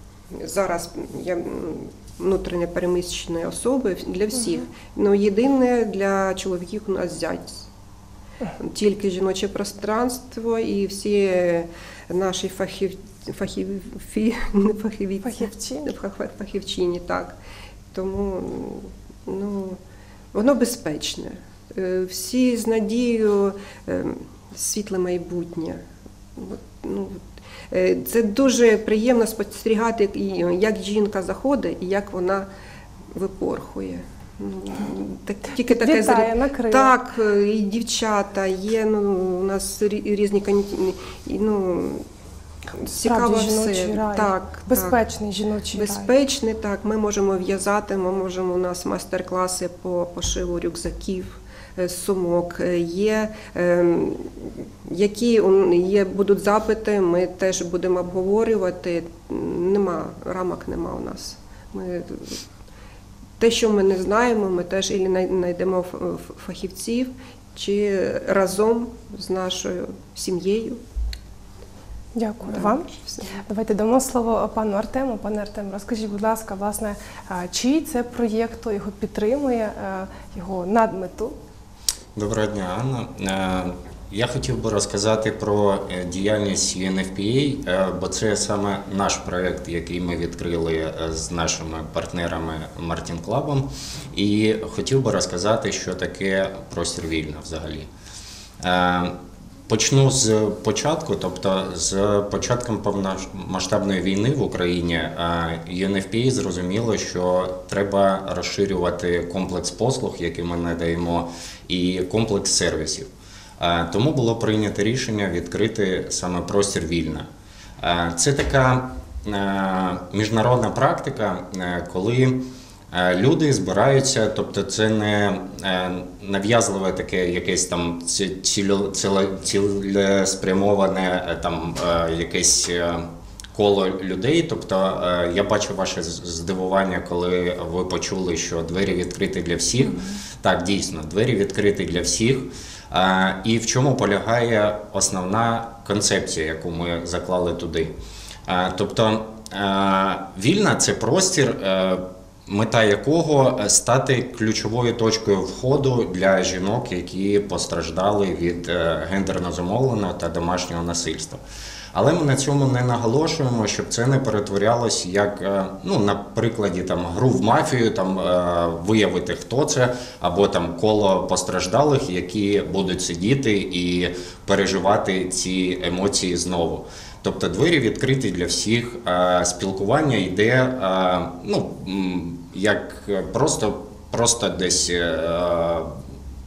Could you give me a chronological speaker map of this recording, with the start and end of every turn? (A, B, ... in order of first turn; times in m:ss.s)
0:00.4-0:07.7 A
0:08.6-0:17.3 A
0:15.2-0:15.9 B
0:17.9-0:19.8 A
0:20.3-0:25.8 A
0:26.4-0:27.2 A
0:27.7-0:32.5 A
0:33.1-0:42.0 A
0:35.6-0:36.9 B
0:42.8-0:46.1 B
0:42.9-0:45.0 A
0:45.7-1:02.4 A
1:03.4-1:10.8 A
1:12.1-1:21.3 B
1:12.4-1:13.3 A
1:22.1-1:37.9 C
1:38.6-1:39.1 C
1:39.7-1:57.3 C
1:57.8-2:27.9 C
2:28.5-2:41.4 C
2:41.9-3:05.9 C